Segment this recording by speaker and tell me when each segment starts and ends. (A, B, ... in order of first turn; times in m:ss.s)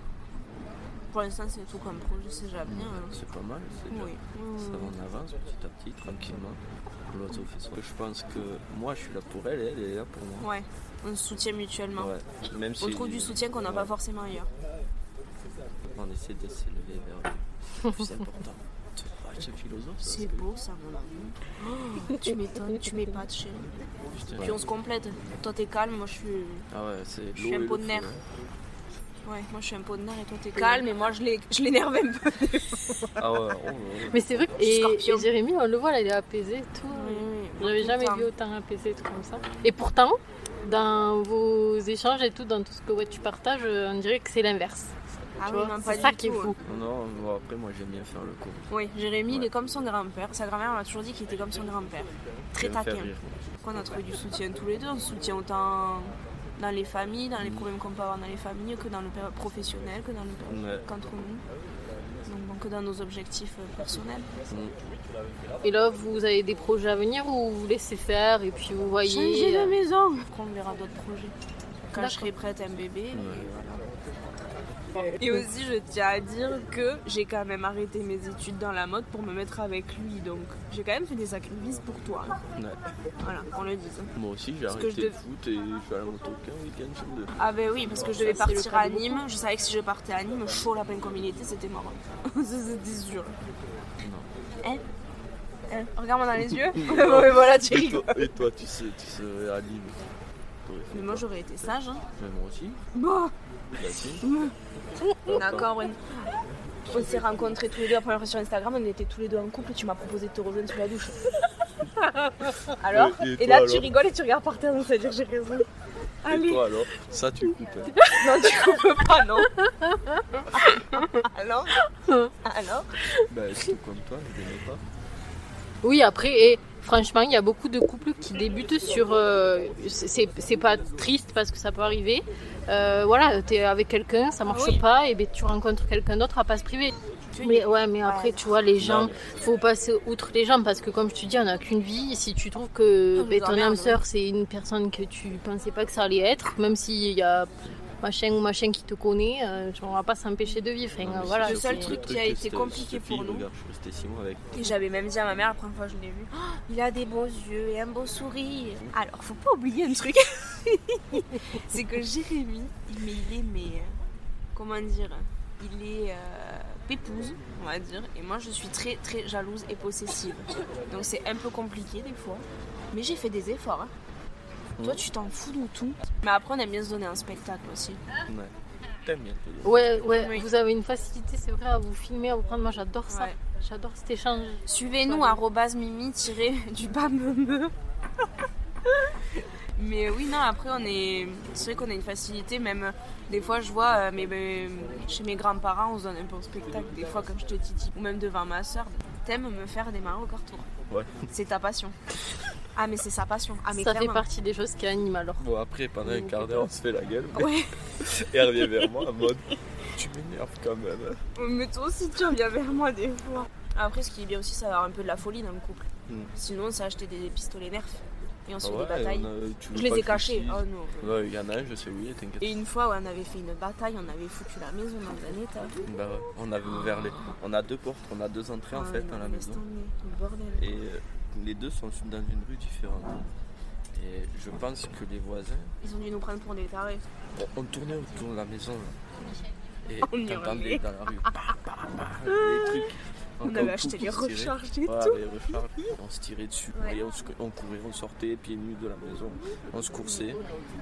0:01.1-0:03.1 A
0:02.6-0:10.5 B
0:03.9-0:05.0 A
0:10.4-0:12.1 A
0:11.9-0:13.9 B
0:12.8-0:14.5 A
0:15.9-0:20.5 B
0:20.0-0:23.7 A
0:24.2-0:24.6 B
0:24.4-0:26.7 A
0:26.7-0:28.2 B
0:27.3-0:28.1 A
0:29.2-0:33.2 A
0:30.6-0:30.8 C
0:33.2-0:34.5 B
0:34.1-0:44.9 C
0:34.6-0:35.3 A
0:36.9-0:38.3 A
0:45.4-0:46.6 A
0:45.4-0:46.6 C
0:46.6-0:48.7 B
0:48.7-0:53.1 A
0:52.6-0:53.6 B
0:53.6-1:01.4 A
0:57.4-0:57.7 B
1:00.5-1:00.8 B
1:02.2-1:04.3 A
1:04.5-1:04.8 B
1:05.6-1:09.8 C
1:09.0-1:11.3 A
1:11.9-1:13.8 A
1:12.0-1:12.3 C
1:13.1-1:13.5 B
1:15.0-1:22.4 A
1:22.6-1:22.8 B
1:23.2-1:24.1 A
1:24.1-1:27.3 B
1:24.7-1:25.2 A
1:27.4-1:33.4 A
1:28.1-1:29.2 C
1:34.0-1:34.3 B
1:35.7-1:38.3 A
1:36.5-1:40.0 B
1:40.6-1:42.8 B
1:40.9-1:42.0 A
1:42.9-1:43.3 A
1:43.8-1:44.2 B
1:44.2-1:44.5 A
1:45.2-1:45.7 B
1:45.3-1:46.2 A
1:46.9-1:51.3 A
1:52.6-1:55.7 A
1:52.9-1:53.9 B
1:56.2-1:56.6 A
1:56.3-1:58.0 B
1:58.0-1:58.2 C
1:58.1-1:59.5 A
1:59.6-2:01.2 C
2:00.5-2:02.9 A
2:01.9-2:02.3 C
2:03.3-2:04.8 B
2:05.8-2:27.5 C
2:14.5-2:14.8 A
2:17.3-2:18.5 A
2:18.8-2:19.2 B
2:23.2-2:24.0 A
2:28.0-2:32.0 C
2:31.0-2:34.5 B
2:31.4-2:33.5 A
2:34.5-2:44.0 A
2:44.5-2:53.9 A
2:54.8-2:55.0 B
2:54.8-2:58.0 A
2:58.3-3:00.0 B
2:59.6-3:05.4 C
3:00.2-3:00.4 A
3:03.1-3:03.3 A
3:04.7-3:07.7 A
3:08.9-3:09.1 A
3:09.8-3:20.7 A
3:20.9-3:21.3 B
3:21.3-3:22.0 A
3:22.7-3:24.2 A
3:23.7-3:25.5 C
3:25.4-3:31.2 B
3:26.1-3:26.6 C
3:27.3-3:27.7 A
3:31.4-3:41.1 A
3:38.6-3:42.6 B
3:42.4-3:45.8 A
3:45.8-3:49.6 B
3:48.7-3:50.8 A
3:50.6-3:53.2 B
3:53.9-3:55.7 B
3:55.8-3:57.0 A
3:57.3-3:59.0 B
3:59.8-4:10.4 B
4:00.1-4:01.6 A
4:02.2-4:05.9 A
4:06.7-4:07.0 A
4:10.0-4:10.5 A